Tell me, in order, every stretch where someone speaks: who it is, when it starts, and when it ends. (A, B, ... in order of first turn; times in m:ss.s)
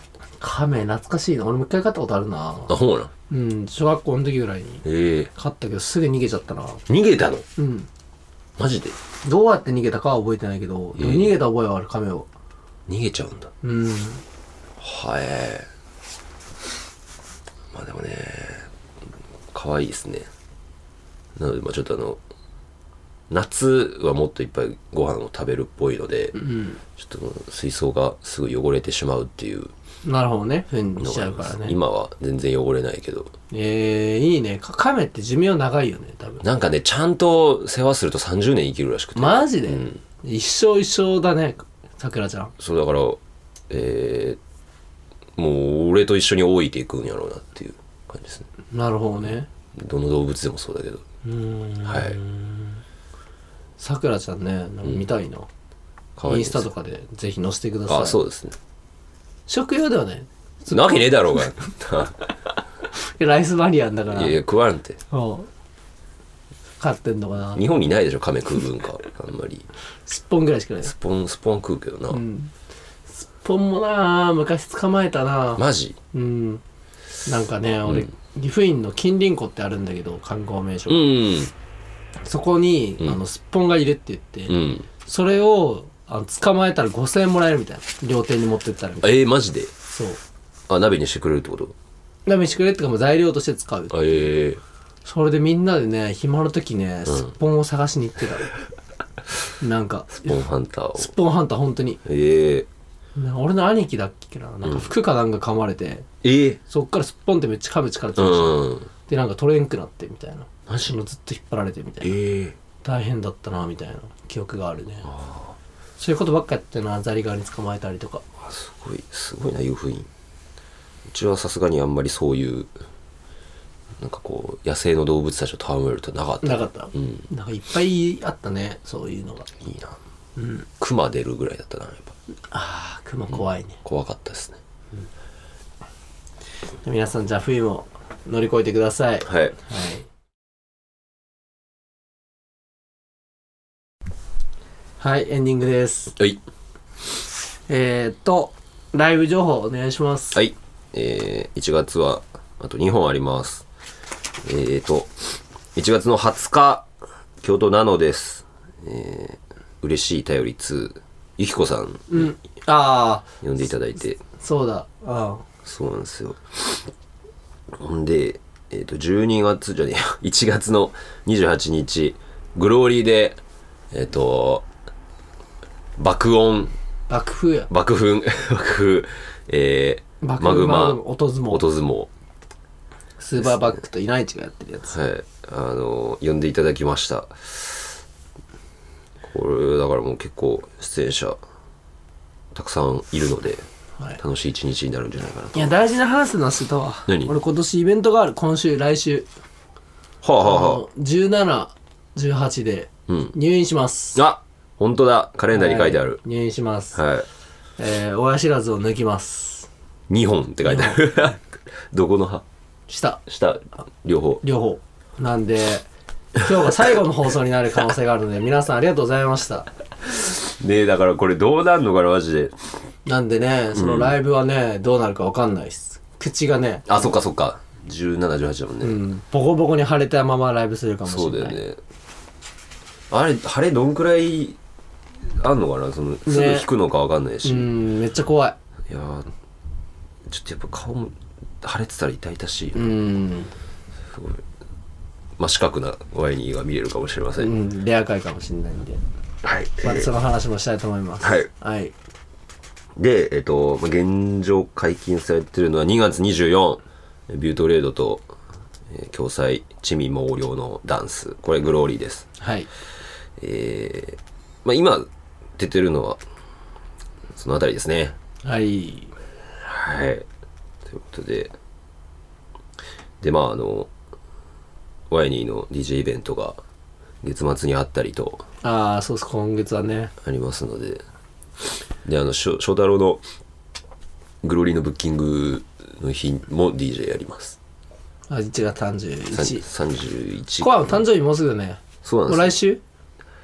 0:00.4-0:02.7 A
0:02.7-0:03.1 B
0:03.3-0:06.8 A
0:04.8-0:05.3 B
0:06.9-0:07.4 B
0:07.6-0:07.9 A
0:08.6-0:09.0 B
0:09.2-0:12.3 A
0:11.0-0:11.4 B
0:12.9-0:13.5 B
0:13.6-0:14.2 A
0:14.8-0:15.7 B
0:17.7-0:18.7 B
0:19.5-0:20.3 B
0:21.4-0:22.2 B
0:23.3-0:26.4 B
0:26.4-0:26.8 A
0:27.0-0:29.7 B
0:30.0-0:31.8 A
0:31.0-0:33.3 B
0:33.5-0:36.4 A
0:36.4-0:40.0 B
0:39.1-0:42.5 A
0:42.6-0:43.2 B
0:43.7-0:44.4 B
0:45.4-0:48.5 B
0:48.7-0:49.5 A
0:49.7-0:51.0 B
0:51.2-0:52.8 A
0:51.8-0:52.2 B
0:53.8-0:55.5 A
0:56.2-0:56.7 B
0:56.2-0:58.2 A
0:57.9-0:58.6 B
0:59.5-1:01.6 A
1:00.7-1:02.2 B
1:02.9-1:04.4 A
1:04.1-1:05.0 B
1:05.1-1:05.5 A
1:06.8-1:07.6 A
1:07.5-1:09.7 B
1:10.0-1:10.9 A
1:10.8-1:12.2 B
1:12.1-1:12.5 A
1:13.1-1:16.6 A
1:15.6-1:16.0 B
1:17.2-1:21.1 A
1:20.9-1:21.5 B
1:22.2-1:29.2 A
1:24.5-1:24.9 B
1:29.0-1:29.7 B
1:29.9-1:30.2 A
1:30.7-1:31.7 B
1:32.2-1:34.2 A
1:33.9-1:34.6 B
1:35.0-1:38.5 A
1:39.6-1:40.4 A
1:40.2-1:41.1 B
1:41.0-1:42.0 A
1:42.0-1:42.7 B
1:43.2-1:46.1 A
1:44.6-1:44.9 B
1:46.2-1:46.6 B
1:46.7-1:52.2 A
1:48.2-1:48.9 B
1:50.7-1:50.9 B
1:52.0-1:52.6 B
1:52.8-1:55.1 A
1:55.0-1:55.6 B
1:56.0-1:58.2 A
1:58.4-2:00.1 B
2:01.1-2:02.7 B
2:04.0-2:07.2 B
2:06.4-2:09.5 A
2:09.6-2:10.0 B
2:10.4-2:10.6 A
2:10.8-2:12.1 B
2:12.5-2:13.8 A
2:13.3-2:14.6 B
2:16.8-2:20.0 A
2:19.2-2:19.5 B
2:25.0-2:26.2 A
2:27.7-2:30.4 A
2:30.3-2:33.6 B
2:34.4-2:36.9 B
2:37.4-2:42.3 B
2:42.1-2:43.2 A
2:43.4-2:44.2 B
2:44.4-2:45.4 A
2:45.6-2:46.9 B
2:47.7-2:53.4 B
2:53.9-2:54.6 B
2:56.0-2:56.7 B
2:57.1-2:57.7 A
2:57.7-3:02.1 B
3:00.2-3:01.6 A
3:03.2-3:04.9 A
3:04.9-3:08.0 B
3:09.2-3:11.4 B
3:12.5-3:13.6 B
3:14.2-3:15.7 B
3:15.5-3:19.3 A
3:17.1-3:17.3 B
3:20.2-3:20.8 B
3:20.4-3:24.2 A
3:23.1-3:23.3 B
3:24.1-3:26.2 B
3:25.5-3:27.0 A
3:26.9-3:27.2 B
3:27.8-3:29.7 A
3:30.1-3:32.4 B
3:30.6-3:31.0 A
3:32.9-3:33.2 A
3:33.2-3:34.4 B
3:34.4-3:39.7 A
3:40.4-3:42.6 B
3:43.0-3:46.9 A
3:43.7-3:44.2 B
3:46.8-3:49.0 B
3:48.8-3:51.6 A
3:51.1-3:51.8 B
3:53.1-3:54.6 B
3:55.2-3:57.7 B
3:56.2-3:56.7 A
3:57.4-3:58.6 A
3:58.9-3:59.3 B
4:00.2-4:02.9 B
4:02.7-4:03.5 A
4:04.1-4:04.4 B
4:05.4-4:07.5 B
4:07.4-4:09.0 A
4:09.4-4:10.1 B
4:09.8-4:11.9 A
4:11.2-4:11.5 B
4:13.0-4:18.3 B
4:18.9-4:22.2 B
4:22.4-4:22.7 A
4:23.4-4:26.2 B
4:27.3-4:28.2 B
4:28.4-4:29.1 A
4:29.6-4:30.2 B
4:30.8-4:31.5 B
4:33.2-4:33.9 B
4:35.1-4:36.6 B
4:37.2-4:38.4 B
4:38.6-4:40.1 A
4:40.2-4:41.0 B
4:42.0-4:43.2 B
4:44.4-4:47.6 B
4:48.3-4:49.6 A
4:49.3-4:51.0 B
4:50.6-4:52.8 A
4:52.0-4:52.6 B